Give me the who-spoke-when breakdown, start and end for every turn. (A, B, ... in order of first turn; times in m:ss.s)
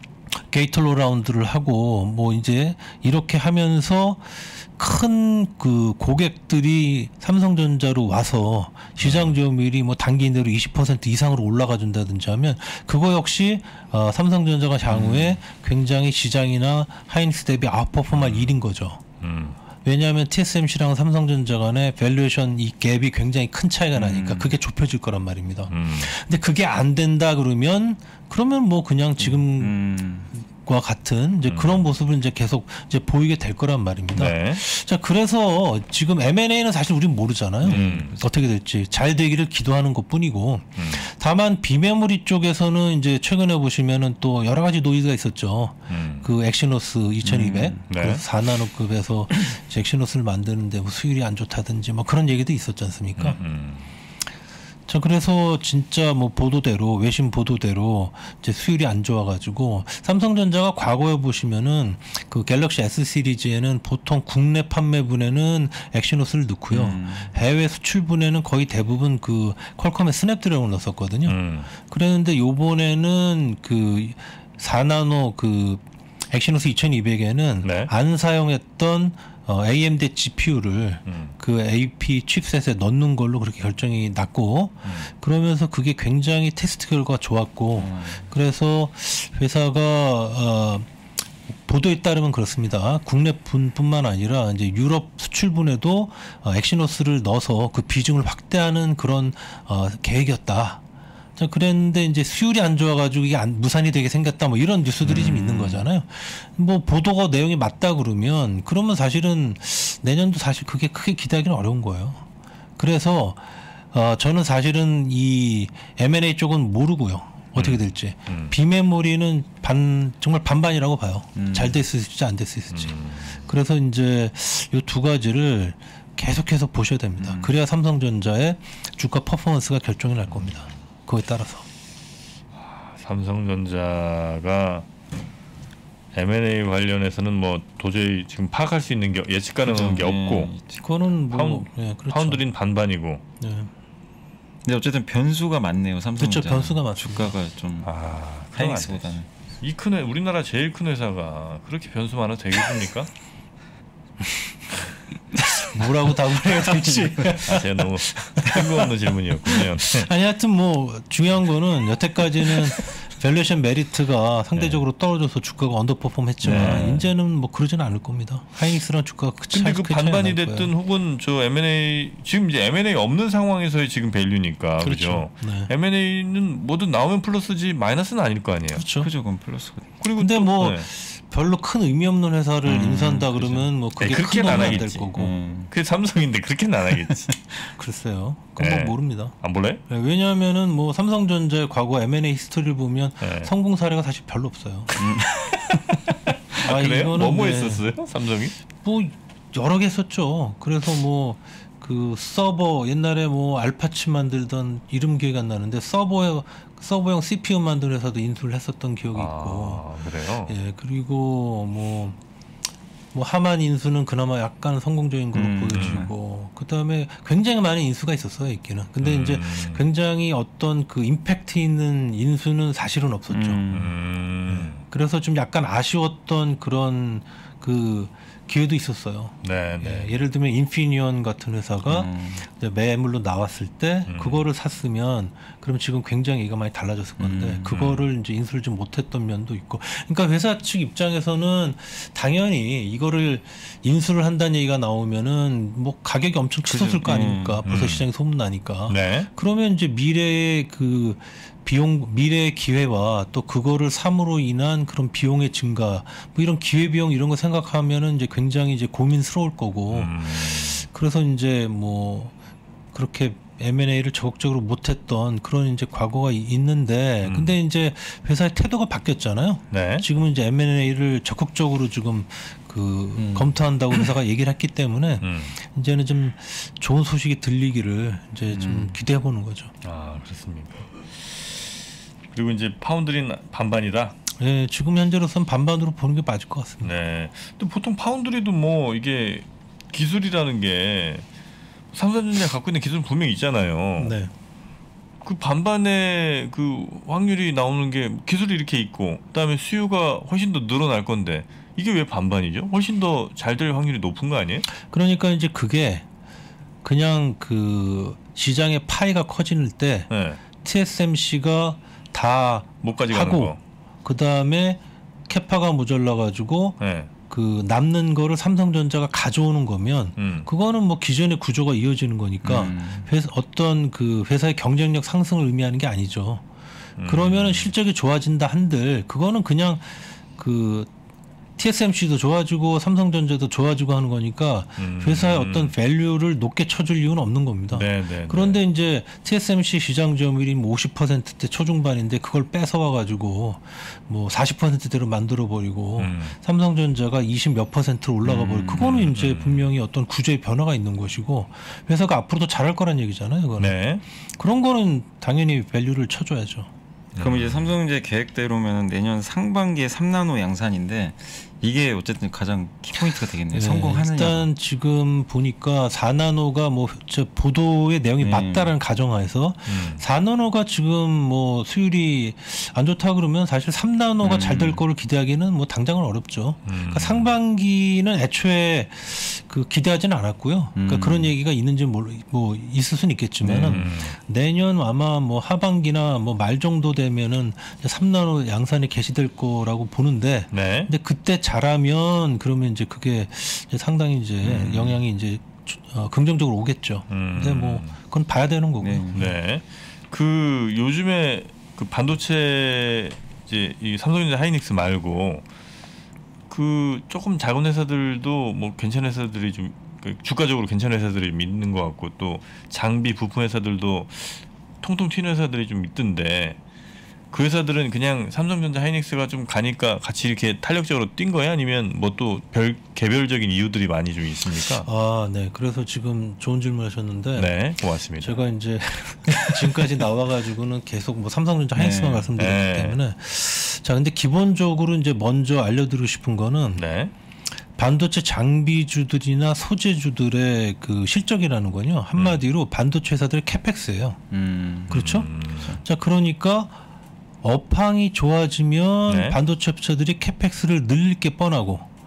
0:00.3-0:19.0 A
0:09.0-0:09.4 B
0:14.9-0:15.4 C
0:18.1-0:18.6 B
0:19.2-0:19.6 B
0:19.8-0:29.8 A
0:24.0-0:24.5 C
0:25.7-0:26.1 B
0:29.2-0:30.3 C
0:30.6-0:53.4 A
0:31.4-0:31.9 B
0:34.1-0:34.6 B
0:37.6-0:38.2 B
0:37.6-0:38.2 C
0:40.8-0:41.0 B
0:45.9-0:46.3 B
0:47.2-0:47.8 C
0:47.9-0:48.2 B
0:53.2-0:53.9 B
0:54.9-1:30.9 A
1:06.7-1:07.3 C
1:11.3-1:11.7 B
1:17.6-1:17.9 B
1:21.1-1:21.4 B
1:24.8-1:25.1 B
1:27.8-1:28.3 C
1:31.6-1:40.8 A
1:41.4-1:52.2 A
1:45.0-1:45.8 C
1:52.8-2:03.0 A
1:57.6-1:58.6 B
2:01.4-2:01.8 C
2:02.7-2:03.5 B
2:03.5-2:11.7 A
2:07.2-2:07.5 C
2:10.3-2:10.6 B
2:12.6-2:14.9 B
2:16.1-2:20.5 B
2:19.6-2:20.8 C
2:20.8-2:22.4 A
2:21.3-2:23.2 B
2:23.4-2:23.7 A
2:24.6-2:27.9 C
2:26.2-2:27.3 A
2:27.8-2:33.1 B
2:28.5-2:29.3 C
2:35.3-2:50.7 A
2:36.5-2:37.3 C
2:37.4-2:40.1 B
2:44.6-2:44.8 B
2:46.4-2:47.1 B
2:46.4-2:47.1 C
2:49.5-2:58.8 B
2:54.8-2:55.7 A
2:58.7-2:59.1 A
2:59.0-2:59.9 C
3:00.0-3:00.9 B
3:00.2-3:05.3 A
3:02.7-3:03.7 C
3:02.7-3:03.2 B
3:04.0-3:05.0 B
3:04.4-3:05.7 C
3:05.7-3:07.4 B
3:07.8-3:09.4 A
3:08.6-3:09.8 B
3:09.9-3:14.9 A
3:13.2-3:13.5 B
3:15.0-3:15.8 C
3:15.0-3:18.6 B
3:16.6-3:17.8 A
3:18.8-3:29.9 A
3:29.1-3:30.6 B
3:30.5-3:32.2 A
3:33.1-3:43.6 A
3:35.3-3:36.1 C
3:35.7-3:36.1 B
3:39.0-3:39.9 B
3:43.3-3:44.0 C
3:43.7-3:44.8 B
3:44.5-4:22.3 A
3:49.4-3:50.2 B
3:51.9-3:52.4 C
3:54.1-3:54.5 B
3:57.2-3:58.0 C
4:06.6-4:07.6 C
4:07.6-4:08.1 B
4:08.9-4:09.3 B
4:19.9-4:20.9 B
4:22.9-4:39.7 A
4:27.2-4:27.6 B
4:29.7-4:30.1 B
4:33.2-4:34.1 C
4:35.2-4:35.6 B
4:38.5-4:39.0 C
4:39.8-4:44.2 B
4:44.4-4:46.9 A
4:46.8-4:51.3 B
4:51.9-4:54.1 B
4:54.0-4:54.3 A
4:55.2-5:04.7 B
5:04.7-5:06.0 A
5:06.8-5:26.4 A
5:10.1-5:10.4 B
5:12.8-5:13.6 B
5:16.8-5:17.1 B
5:20.2-5:20.5 B
5:22.4-5:23.1 C
5:27.0-5:27.7 B
5:27.0-5:30.9 A
5:31.6-5:53.8 A
5:34.8-5:35.7 B
5:37.7-5:38.6 B
5:46.0-5:46.4 B
5:48.2-5:49.0 C
5:48.7-5:49.7 B
5:53.6-5:54.0 B
5:54.4-5:56.7 A
5:57.2-5:57.8 B
5:57.2-6:04.5 C
6:03.5-6:39.1 A
6:08.2-6:08.7 C
6:09.7-6:10.0 B
6:14.2-6:14.8 C
6:16.7-6:17.3 B
6:20.8-6:21.3 C
6:23.4-6:23.9 C
6:23.6-6:24.2 B
6:30.5-6:30.9 B
6:34.4-6:35.0 B
6:37.1-6:38.0 B
6:38.8-6:39.3 C
6:39.1-6:45.4 B
6:46.5-6:56.6 B
6:57.3-7:04.9 B
7:04.8-7:07.6 A
7:07.4-7:08.4 B
7:08.2-7:16.8 A
7:11.8-7:12.3 C
7:12.4-7:13.0 B
7:16.8-7:17.1 B
7:17.8-7:24.2 A
7:22.2-7:22.4 B
7:24.3-7:25.8 C
7:24.9-7:25.3 A
7:24.9-7:25.8 B
7:25.8-7:26.7 A
7:27.4-7:31.9 A
7:29.1-7:29.4 B